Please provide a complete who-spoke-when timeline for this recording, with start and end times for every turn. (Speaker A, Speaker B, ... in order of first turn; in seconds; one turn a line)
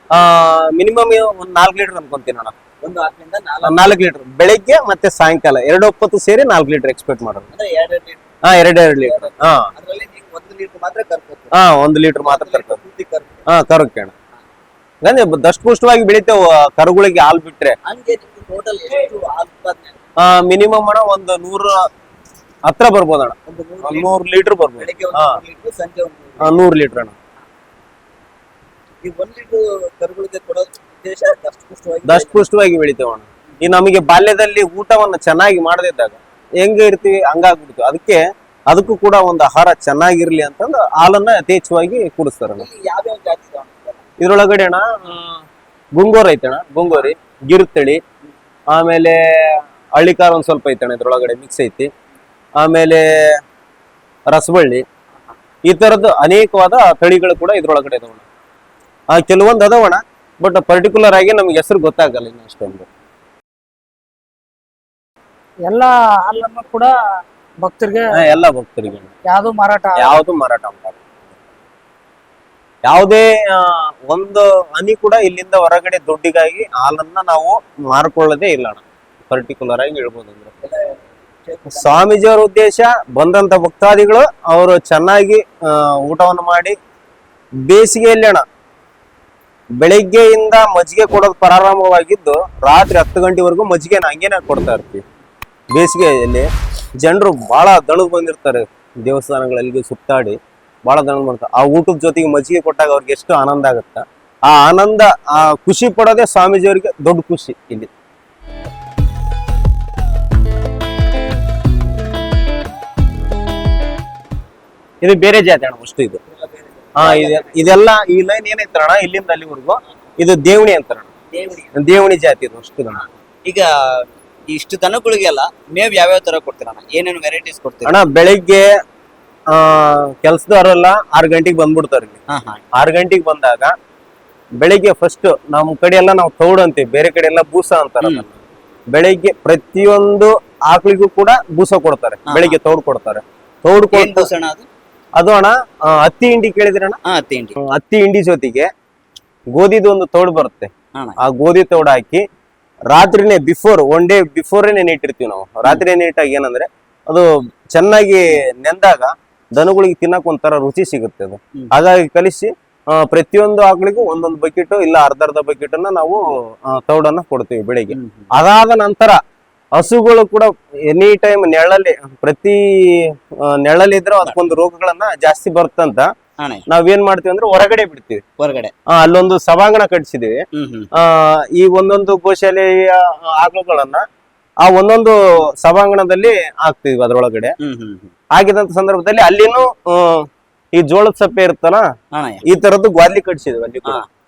Speaker A: 0.1-2.5
Speaker B: 2.8-3.9
Speaker A: 3.6-7.5
Speaker B: 7.5-8.3
Speaker A: 8.4-9.7
Speaker B: 8.9-11.5
Speaker A: 11.5-12.8
Speaker B: 12.2-13.4
Speaker A: 13.5-14.1
Speaker A: 15.0-17.8
Speaker B: 17.9-20.0
Speaker A: 20.2-21.8
Speaker A: 22.7-25.4
Speaker B: 23.5-24.1
Speaker B: 24.8-26.5
Speaker A: 26.4-27.1
Speaker B: 29.0-32.5
Speaker A: 32.1-42.6
Speaker B: 42.6-44.0
Speaker A: 44.2-45.4
Speaker A: 46.0-48.0
Speaker A: 48.7-51.9
Speaker A: 52.6-53.3
Speaker A: 54.3-54.8
Speaker A: 55.6-58.2
Speaker A: 59.1-62.9
Speaker C: 65.7-66.9
Speaker C: 67.6-68.1
Speaker A: 68.1-69.1
Speaker C: 69.3-70.2
Speaker A: 70.0-71.1
Speaker A: 72.8-80.5
Speaker B: 80.6-82.1
Speaker A: 81.7-86.8
Speaker A: 87.7-88.4
Speaker A: 89.8-95.0
Speaker A: 95.7-96.5
Speaker A: 97.0-107.9
Speaker A: 115.0-116.2
Speaker B: 116.4-117.6
Speaker A: 117.0-121.1
Speaker B: 121.3-121.8
Speaker A: 121.8-123.0
Speaker B: 123.5-128.0
Speaker A: 127.9-128.7
Speaker A: 129.5-132.2
Speaker B: 132.3-132.6
Speaker A: 132.8-133.7
Speaker A: 134.6-138.4
Speaker A: 138.9-144.3
Speaker B: 142.3-142.6
Speaker B: 143.9-144.7
Speaker A: 145.2-147.0
Speaker B: 147.1-147.6
Speaker A: 147.6-148.7
Speaker A: 149.5-152.2
Speaker A: 152.9-169.2
Speaker B: 167.9-168.3
Speaker A: 169.8-176.1
Speaker B: 176.4-176.6
Speaker A: 176.7-178.2
Speaker B: 178.4-178.7
Speaker A: 178.9-180.4
Speaker B: 180.5-180.9
Speaker A: 181.0-184.1
Speaker A: 184.6-187.6
Speaker B: 187.6-188.1
Speaker A: 188.3-191.8
Speaker B: 192.1-192.4
Speaker A: 192.5-194.0